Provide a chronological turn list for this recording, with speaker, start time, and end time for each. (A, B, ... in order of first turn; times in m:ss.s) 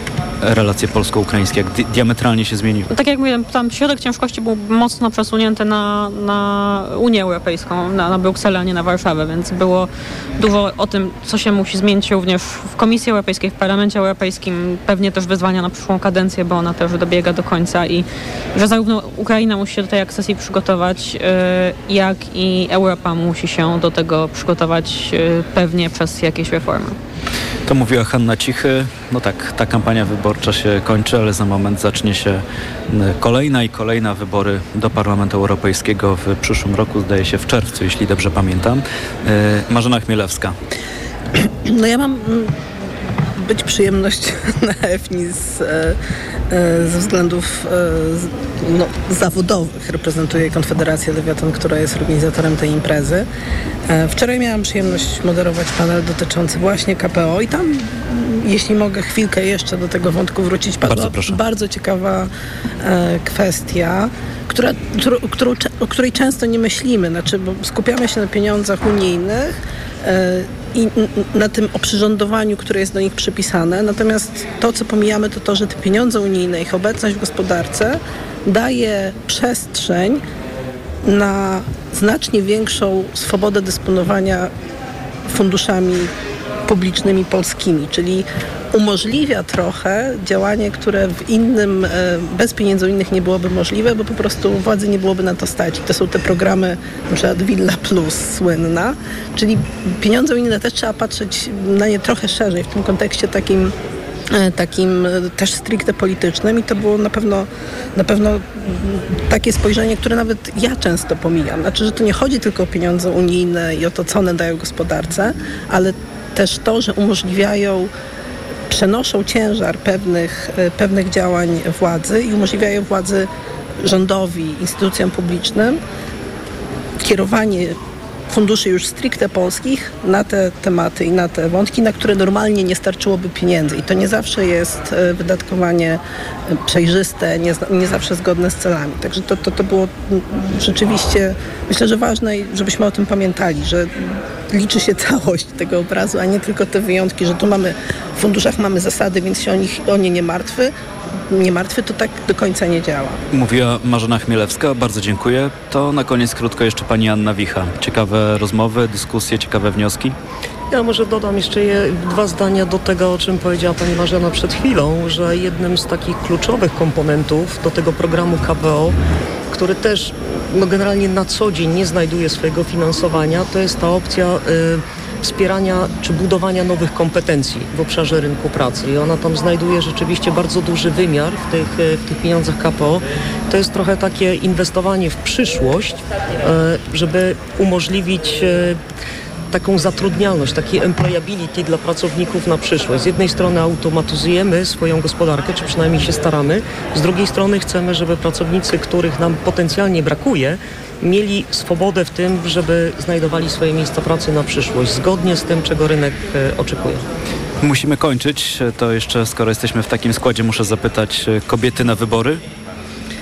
0:00.4-0:02.9 A
0:02.9-0:27.0 B
0:27.7-0:40.6 A
0:41.7-0:42.5 C
0:43.4-0:46.0 C
0:46.5-0:53.3 C
0:53.9-1:02.3 C
1:00.8-1:01.4 A
1:02.8-1:20.2 C
1:21.1-1:24.5 C
1:25.3-1:26.1 C
1:26.7-1:43.7 C
1:44.3-1:57.9 C
1:58.7-2:03.3 C
2:03.8-2:05.8 C
2:07.0-2:07.8 C
2:08.3-2:30.7 C
2:31.3-2:33.2 C
2:33.3-2:40.1 A
2:40.7-2:49.0 D
2:49.5-3:08.8 D
3:09.5-3:27.0 D
3:27.6-3:32.4 A